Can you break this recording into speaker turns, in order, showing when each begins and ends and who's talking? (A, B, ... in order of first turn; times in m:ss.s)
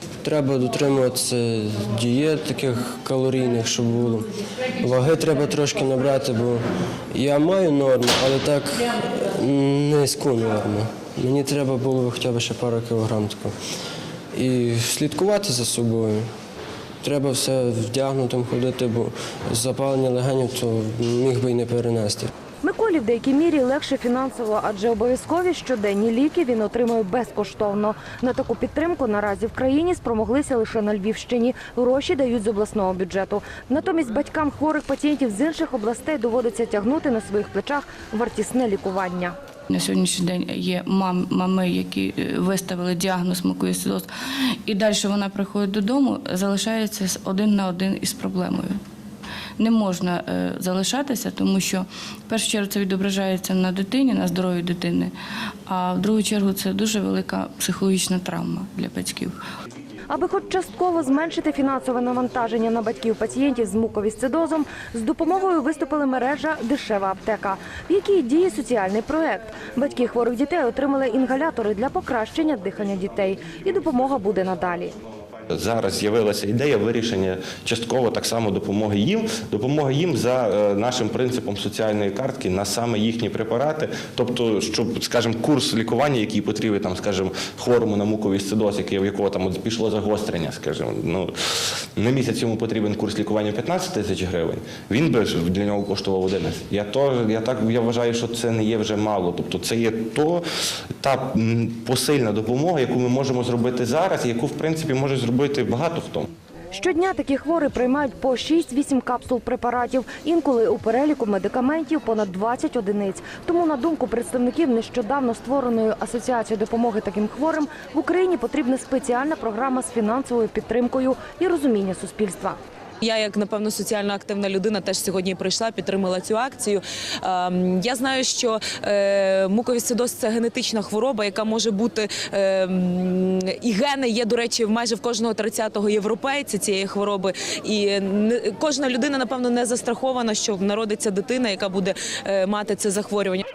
0:00.2-0:13.5 A
0:14.4-0:16.3 A
0:17.0-0:22.3 A
0:22.6-0:39.4 B
0:39.7-0:44.1 C
0:44.7-0:48.8 C
0:49.6-0:55.1 C
0:55.7-0:59.4 C
1:00.1-1:15.0 B
1:15.5-1:31.3 D
1:32.0-1:40.4 D
1:41.0-1:46.3 D
1:46.7-2:02.6 B
2:03.0-2:23.4 E